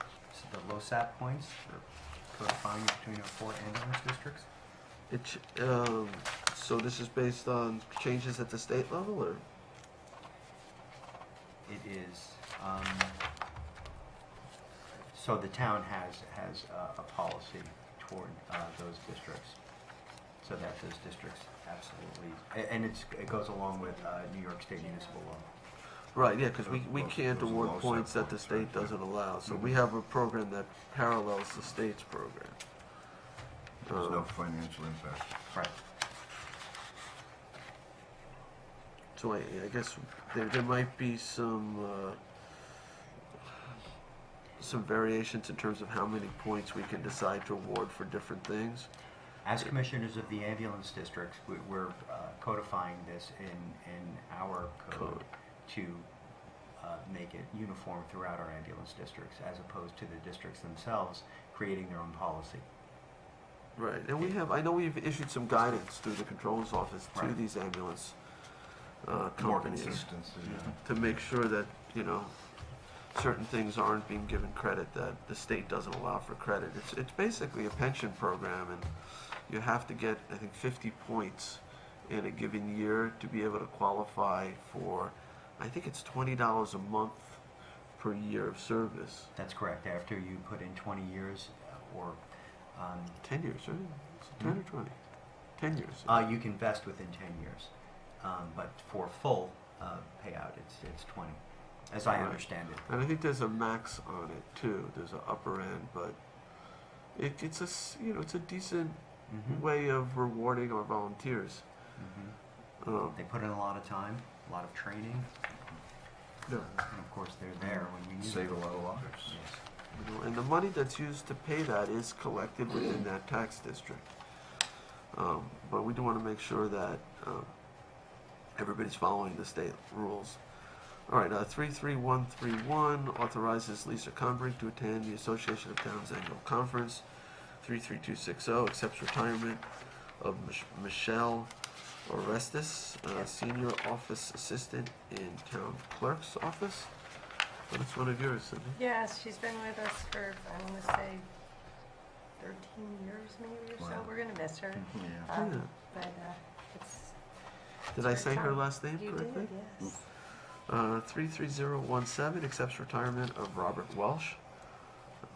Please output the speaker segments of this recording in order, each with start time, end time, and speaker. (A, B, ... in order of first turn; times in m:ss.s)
0:00.3-0:04.5 A
0:05.1-0:09.4 B
0:11.7-0:13.2 A
0:15.1-0:19.6 A
0:20.4-0:25.5 A
0:24.8-0:25.4 C
0:26.1-0:32.6 B
0:26.6-0:29.8 D
0:33.8-0:34.3 B
0:33.9-0:35.4 D
0:39.2-0:43.0 B
0:44.6-0:48.9 B
0:49.4-0:56.1 A
0:54.9-0:55.2 B
0:56.8-1:02.7 A
1:03.8-1:08.2 B
1:07.1-1:07.4 A
1:09.0-1:29.3 B
1:09.4-1:11.2 D
1:29.4-1:33.2 A
1:33.2-1:36.2 B
1:36.1-1:42.9 A
1:42.1-1:51.8 B
1:49.3-1:49.7 A
1:52.0-1:52.4 A
1:52.8-1:53.2 B
1:53.1-1:55.3 A
1:56.8-1:59.6 A
1:57.6-1:59.4 D
1:59.9-2:04.2 B
2:05.1-2:10.4 B
2:11.1-2:21.5 B
2:22.0-2:26.9 B
2:27.7-2:28.8 B
2:28.8-2:31.3 C
2:32.4-2:40.0 C
2:33.8-2:35.3 D
2:35.4-2:35.7 B
2:37.9-2:45.0 B